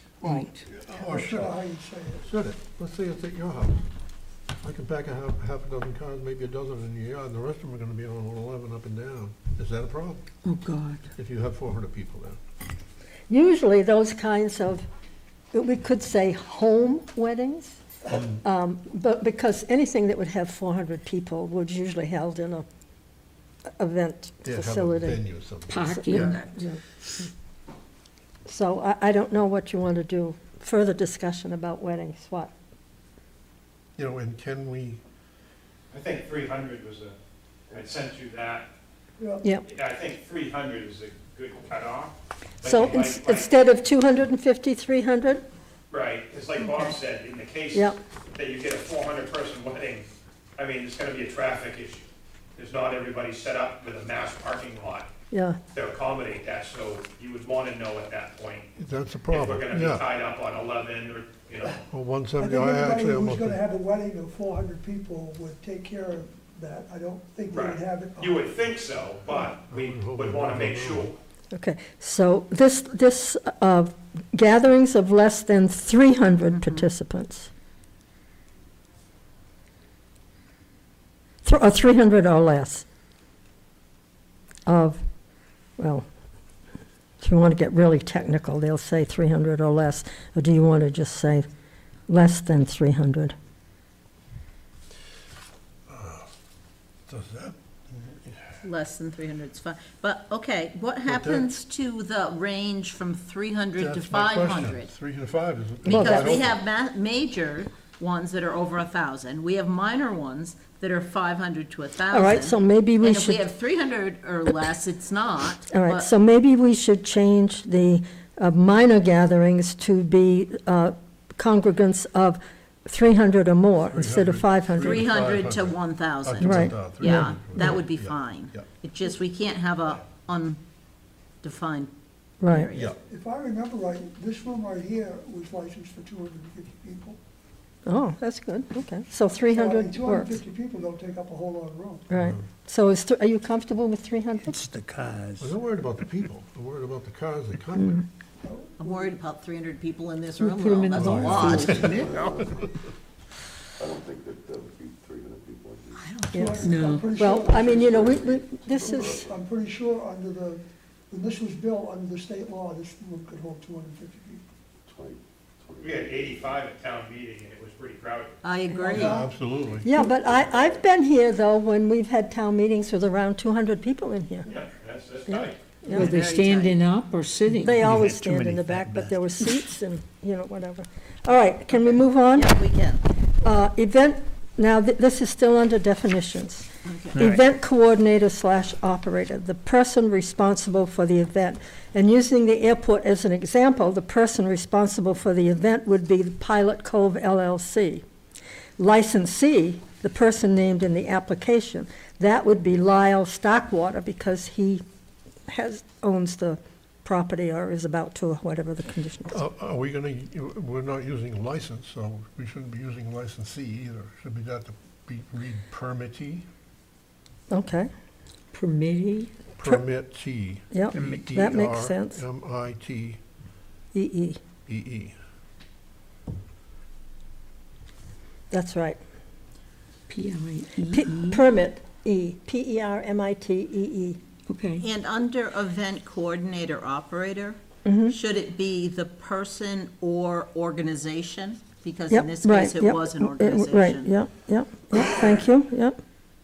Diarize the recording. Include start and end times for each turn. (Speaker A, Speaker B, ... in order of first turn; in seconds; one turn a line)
Speaker A: 0.2-1.6
Speaker B: 0.2-0.6
Speaker C: 0.9-2.2
Speaker A: 2.2-3.8
Speaker A: 4.6-10.2
Speaker B: 10.4-11.1
Speaker A: 11.2-12.4
Speaker D: 13.3-14.8
Speaker D: 15.5-22.6
Speaker D: 23.8-25.2
Speaker A: 24.4-26.3
Speaker B: 25.7-26.6
Speaker D: 25.9-26.8
Speaker D: 28.4-32.5
Speaker A: 34.0-35.0
Speaker E: 35.9-37.1
Speaker E: 37.7-38.7
Speaker C: 39.2-39.5
Speaker E: 39.6-43.5
Speaker D: 42.6-45.4
Speaker E: 45.9-50.0
Speaker F: 46.6-47.0
Speaker D: 47.7-48.0
Speaker E: 50.6-52.0
Speaker E: 52.6-55.1
Speaker D: 55.3-55.6
Speaker E: 55.7-58.6
Speaker A: 58.8-60.0
Speaker E: 59.3-61.8
Speaker A: 61.9-63.6
Speaker C: 62.4-68.7
Speaker E: 67.5-71.2
Speaker A: 69.7-71.1
Speaker D: 71.5-77.5
Speaker F: 76.5-76.9
Speaker D: 81.4-82.8
Speaker D: 84.7-85.0
Speaker D: 85.8-86.0
Speaker D: 87.2-91.5
Speaker D: 92.1-93.3
Speaker A: 95.9-96.3
Speaker A: 97.1-98.4
Speaker F: 98.6-104.9
Speaker A: 101.0-101.5
Speaker A: 103.8-106.6
Speaker F: 105.8-116.1
Speaker D: 105.9-106.4
Speaker D: 112.1-113.4
Speaker D: 115.7-125.0
Speaker A: 123.9-128.6
Speaker F: 124.8-130.6
Speaker D: 126.4-126.8
Speaker F: 131.4-131.9
Speaker D: 132.4-132.7
Speaker F: 132.4-132.9
Speaker C: 132.8-137.2
Speaker D: 137.8-140.4
Speaker C: 139.5-142.1
Speaker D: 142.1-144.7
Speaker G: 144.5-145.4
Speaker A: 145.4-148.0
Speaker C: 148.4-149.2
Speaker F: 148.8-151.8
Speaker B: 150.4-152.1
Speaker H: 150.9-152.8
Speaker A: 151.2-152.1
Speaker H: 153.8-156.1
Speaker F: 155.9-156.6
Speaker D: 156.3-159.3
Speaker C: 156.3-158.0
Speaker B: 156.6-157.2
Speaker H: 156.9-159.3
Speaker C: 158.8-164.4
Speaker H: 164.8-166.6
Speaker E: 165.8-168.3
Speaker F: 168.4-169.2
Speaker C: 168.7-169.3
Speaker A: 168.9-169.9
Speaker D: 169.8-174.5
Speaker H: 170.1-170.8
Speaker E: 174.4-175.7
Speaker D: 175.3-176.1
Speaker B: 175.9-177.9
Speaker F: 175.9-176.8
Speaker D: 177.6-182.6
Speaker G: 177.8-179.1
Speaker F: 182.3-183.0
Speaker D: 183.4-198.0
Speaker F: 186.9-187.2
Speaker G: 187.2-187.4
Speaker D: 198.8-204.8
Speaker D: 205.5-209.4
Speaker A: 209.3-216.4
Speaker D: 217.5-217.9
Speaker B: 218.5-219.4
Speaker A: 219.6-223.2
Speaker D: 220.7-222.2
Speaker D: 223.9-224.4
Speaker A: 224.7-225.1
Speaker D: 228.5-229.0
Speaker B: 230.1-231.4
Speaker D: 230.9-234.2
Speaker B: 234.5-234.8
Speaker F: 234.8-244.1
Speaker D: 237.8-238.1
Speaker D: 242.1-246.0